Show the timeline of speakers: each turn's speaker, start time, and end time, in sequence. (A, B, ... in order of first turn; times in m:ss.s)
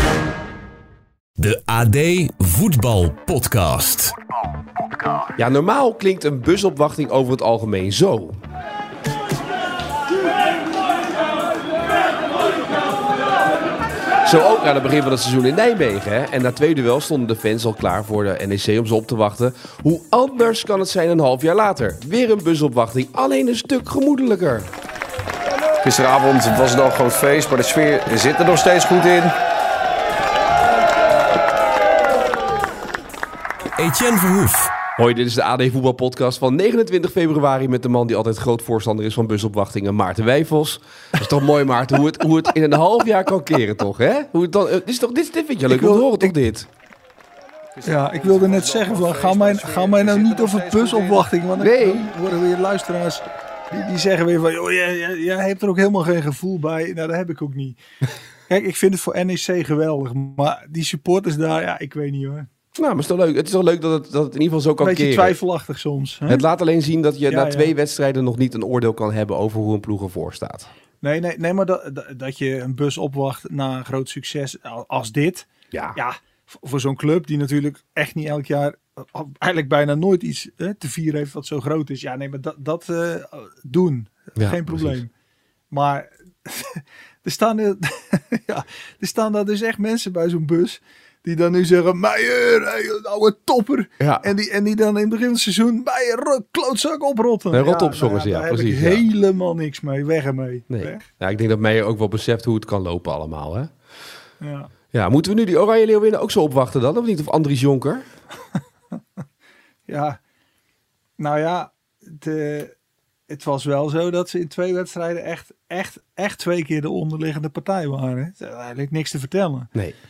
0:01.4-0:04.2 A
0:05.4-0:08.4 B
0:14.2-0:24.7 B
0:25.8-0:29.3 C
0:33.7-0:34.8 A
0:35.0-0:46.7 B
0:45.7-0:46.3 D
0:47.8-0:51.3 C
0:47.8-0:57.8 D
0:51.6-0:52.1 B
0:58.5-1:02.5 D
1:02.8-1:05.4 B
1:04.8-1:06.5 D
1:06.3-1:10.7 B
1:07.3-1:07.7 D
1:11.0-1:25.1 D
1:24.4-1:25.0 B
1:25.7-1:41.0 D
1:34.0-1:34.3 B
1:37.5-1:39.0 B
1:40.7-1:43.7 B
1:44.4-1:44.7 D
1:44.9-1:48.0 B
1:49.9-1:50.2 D
1:51.2-1:52.7 D
1:53.3-1:59.7 D